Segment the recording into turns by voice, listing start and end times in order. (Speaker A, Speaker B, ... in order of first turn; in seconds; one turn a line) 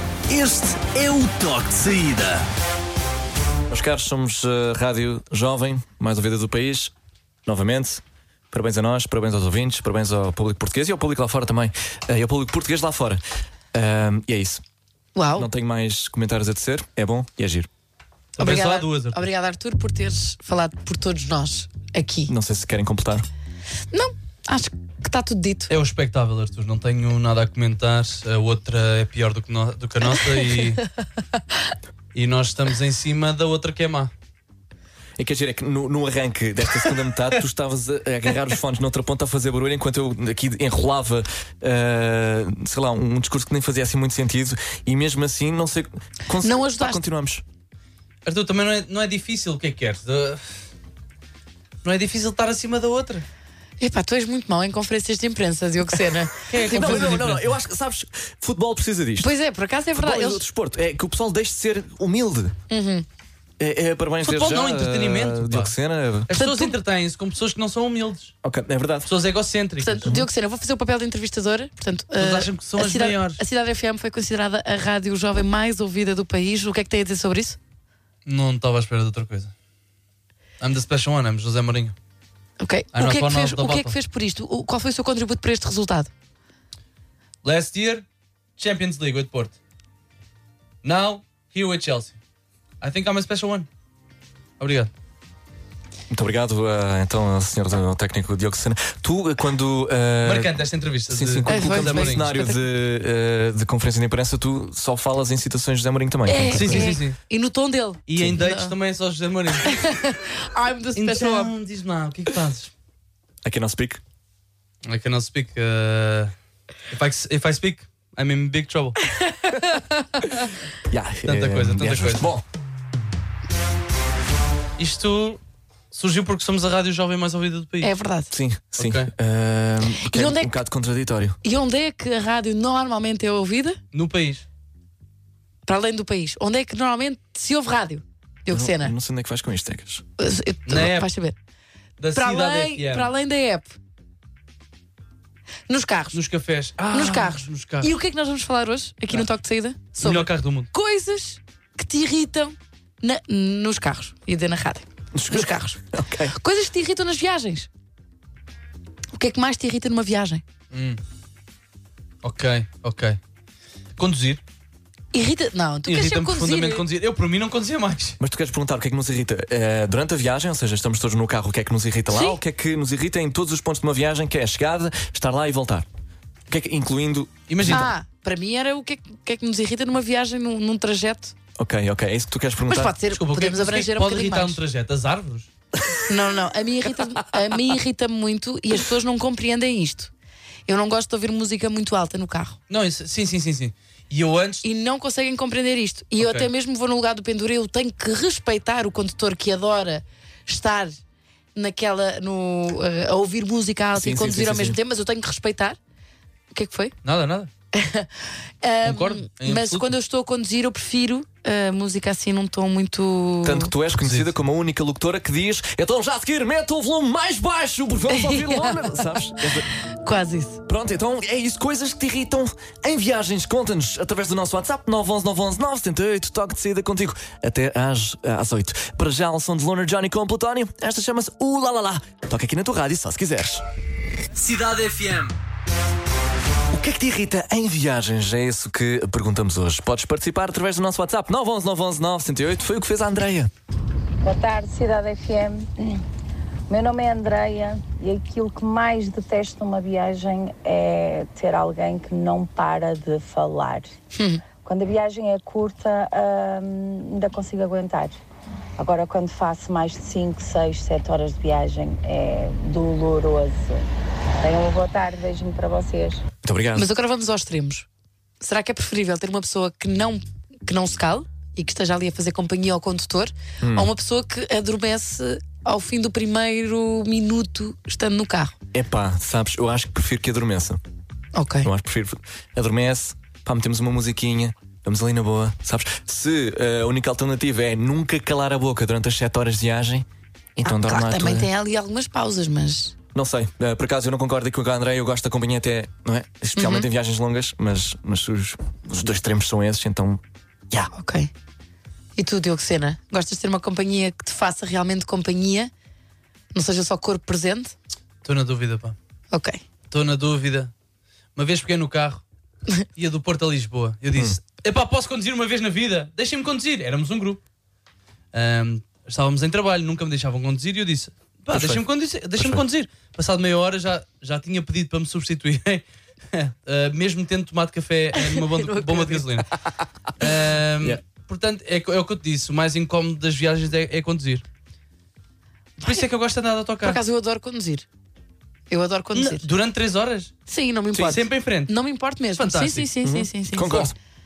Speaker A: 0.3-2.4
Speaker B: 3.7-6.9
Speaker B: 7.5-13.2
Speaker B: 13.7-14.6
Speaker C: 15.1-15.5
Speaker B: 15.3-17.7
Speaker D: 18.4-19.2
Speaker C: 18.4-22.3
Speaker B: 22.3-23.2
Speaker C: 23.9-25.7
Speaker D: 25.7-30.8
Speaker D: 32.1-34.1
Speaker B: 35.2-47.4
Speaker C: 46.4-47.0
Speaker D: 48.2-50.4
Speaker D: 51.8-53.2
Speaker C: 53.8-57.1
Speaker D: 56.5-57.5
Speaker B: 56.6-59.3
Speaker C: 59.2-60.4
Speaker B: 60.0-62.5
Speaker C: 62.7-63.0
Speaker B: 63.6-66.3
Speaker D: 64.2-65.7
Speaker D: 66.3-68.3
Speaker C: 66.3-66.7
Speaker B: 68.4-69.1
Speaker D: 69.0-70.1
Speaker C: 69.8-77.6
Speaker D: 72.2-73.4
Speaker D: 78.2-79.5
Speaker D: 80.6-82.0
Speaker C: 82.6-86.1
Speaker D: 82.9-83.9
Speaker D: 87.4-88.0
Speaker D: 88.6-89.5
Speaker D: 90.8-92.2
Speaker D: 92.8-93.7
Speaker D: 94.6-94.9
Speaker B: 96.1-100.5
Speaker D: 100.2-102.2
Speaker B: 101.1-107.0
Speaker C: 101.5-102.6
Speaker C: 106.3-108.7
Speaker D: 106.5-107.2
Speaker D: 108.1-109.9
Speaker C: 109.6-111.5
Speaker D: 111.0-112.7
Speaker B: 113.4-114.0
Speaker D: 114.8-116.3
Speaker D: 116.9-119.0
Speaker C: 119.2-120.0
Speaker B: 120.9-122.4
Speaker D: 121.2-122.3
Speaker D: 124.8-125.4
Speaker D: 125.9-127.9
Speaker C: 127.8-128.3
Speaker B: 128.3-131.4
Speaker D: 128.8-129.1
Speaker C: 130.0-130.6
Speaker C: 131.4-133.8
Speaker D: 133.9-134.4
Speaker C: 135.7-138.9
Speaker B: 138.5-140.0
Speaker C: 140.2-141.3
Speaker D: 140.7-141.1
Speaker D: 142.0-143.1
Speaker C: 142.1-143.8
Speaker C: 145.7-146.2
Speaker D: 146.1-147.9
Speaker C: 146.9-155.8
Speaker D: 150.0-150.7
Speaker B: 155.1-156.3
Speaker C: 156.3-157.7
Speaker C: 159.1-160.4
Speaker D: 160.7-161.0
Speaker D: 162.2-163.2
Speaker D: 164.0-164.4
Speaker C: 165.1-166.8
Speaker D: 165.8-168.2
Speaker B: 168.2-175.9
Speaker C: 172.1-172.4
Speaker B: 176.5-177.9
Speaker D: 177.5-177.9
Speaker C: 177.7-181.3
Speaker B: 181.6-182.9
Speaker C: 182.7-184.6
Speaker D: 183.1-185.5
Speaker B: 185.8-186.1
Speaker C: 186.1-190.1
Speaker B: 187.0-187.6
Speaker C: 190.7-192.6
Speaker D: 192.7-194.6
Speaker C: 194.6-201.0
Speaker D: 196.2-196.5
Speaker C: 201.5-205.8
Speaker B: 203.9-204.8
Speaker C: 206.5-206.9
Speaker D: 207.0-207.5
Speaker C: 207.7-213.7
Speaker D: 208.8-209.9
Speaker B: 213.4-219.6
Speaker D: 214.0-214.3
Speaker C: 218.1-220.6
Speaker B: 220.7-233.6
Speaker A: 234.3-235.3
Speaker B: 236.7-243.5
Speaker E: 244.2-246.0
Speaker E: 246.7-253.9
Speaker C: 254.1-254.4
Speaker E: 254.6-258.2
Speaker E: 258.8-263.8
Speaker E: 264.4-266.2
Speaker B: 266.4-266.9
Speaker C: 266.8-267.9
Speaker C: 268.4-278.5
Speaker B: 273.6-273.9
Speaker B: 278.7-280.8
Speaker C: 281.3-281.7
Speaker B: 281.6-290.1
Speaker B: 290.6-291.5
Speaker C: 290.6-292.9
Speaker B: 293.1-300.9
Speaker C: 296.5-296.9
Speaker C: 300.9-301.3
Speaker C: 302.1-305.7
Speaker C: 306.5-307.7
Speaker D: 308.2-308.9
Speaker C: 309.3-309.6
Speaker D: 309.9-310.7
Speaker D: 311.4-312.2
Speaker D: 312.9-317.4
Speaker B: 314.1-314.4
Speaker D: 318.3-329.5
Speaker B: 321.5-321.8
Speaker B: 322.4-322.6
Speaker C: 328.2-329.2
Speaker D: 330.2-334.4
Speaker C: 335.8-336.0
Speaker D: 335.8-337.0
Speaker C: 336.8-337.9
Speaker C: 338.7-339.5
Speaker D: 339.1-340.3
Speaker C: 340.5-343.9
Speaker D: 340.9-341.7
Speaker D: 342.3-342.9
Speaker B: 343.0-343.9